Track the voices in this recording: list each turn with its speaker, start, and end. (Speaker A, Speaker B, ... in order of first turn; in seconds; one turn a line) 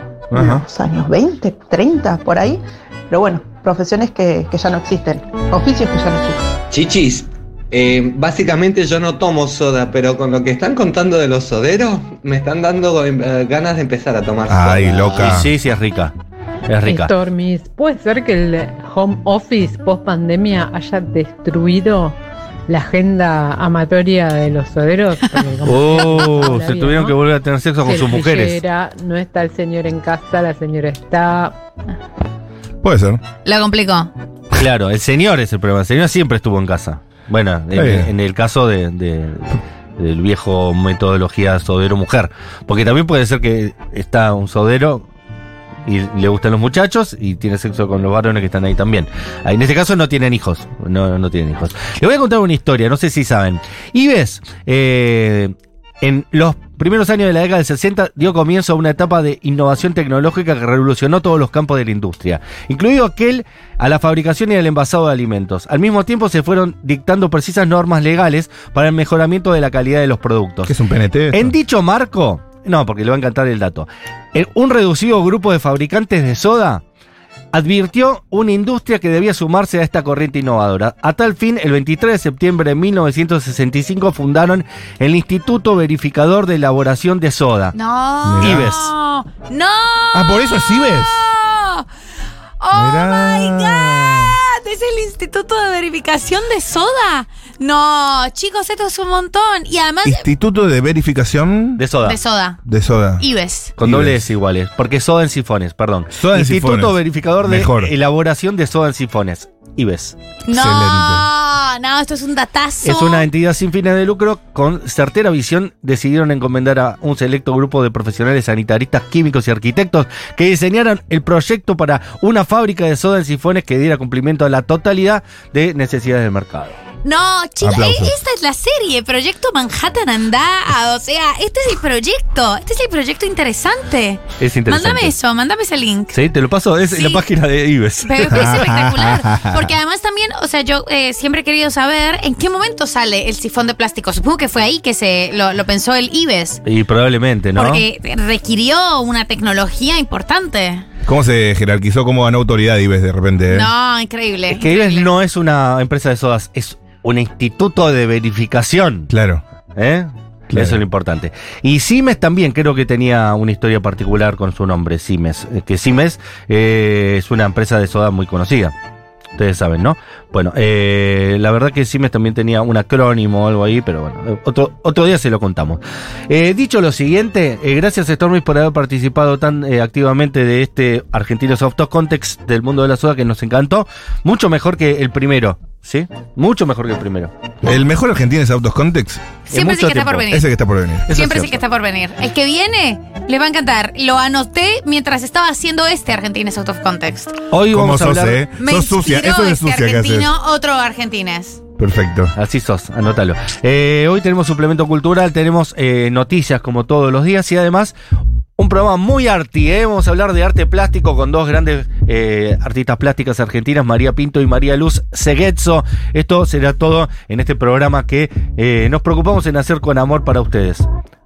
Speaker A: 0.3-0.6
Speaker B: 0.3-6.4
Speaker C: 6.7-15.3
Speaker A: 14.5-15.5
Speaker D: 15.1-16.1
Speaker D: 16.7-17.1
Speaker E: 16.9-22.2
Speaker E: 22.7-27.2
Speaker D: 25.6-28.6
Speaker E: 27.8-31.5
Speaker A: 32.8-33.2
Speaker F: 33.4-34.1
Speaker D: 34.5-45.1
Speaker A: 37.7-38.1
Speaker D: 45.9-70.7
Speaker A: 70.7-71.5
Speaker D: 71.3-76.8
Speaker D: 77.5-87.7
Speaker F: 87.7-91.8
Speaker A: 88.2-88.7
Speaker D: 88.4-88.9
Speaker A: 90.1-91.3
Speaker F: 92.6-100.2
Speaker A: 92.7-94.3
Speaker A: 100.0-101.8
Speaker D: 101.8-102.2
Speaker F: 102.0-102.6
Speaker A: 102.7-103.2
Speaker F: 103.2-103.7
Speaker D: 103.8-110.2
Speaker A: 103.8-104.2
Speaker A: 106.1-107.9
Speaker F: 110.5-113.2
Speaker A: 110.5-111.3
Speaker D: 112.8-126.8
Speaker F: 127.0-136.2
Speaker A: 127.6-128.1
Speaker D: 134.4-135.1
Speaker D: 136.1-138.5
Speaker F: 136.9-137.2
Speaker F: 138.0-146.6
Speaker A: 138.3-139.7
Speaker D: 146.6-147.8
Speaker F: 147.5-150.8
Speaker A: 151.0-153.7
Speaker F: 153.5-155.1
Speaker D: 154.5-159.1
Speaker A: 159.1-159.4
Speaker D: 159.8-168.7
Speaker A: 160.5-160.8
Speaker D: 169.4-187.3
Speaker A: 187.6-189.2
Speaker F: 189.5-190.5
Speaker D: 189.5-190.3
Speaker A: 190.3-191.1
Speaker D: 191.1-191.6
Speaker F: 191.1-197.4
Speaker D: 197.5-198.4
Speaker A: 197.7-200.3
Speaker F: 198.6-201.6
Speaker A: 201.8-202.3
Speaker D: 202.3-207.9
Speaker D: 208.6-220.9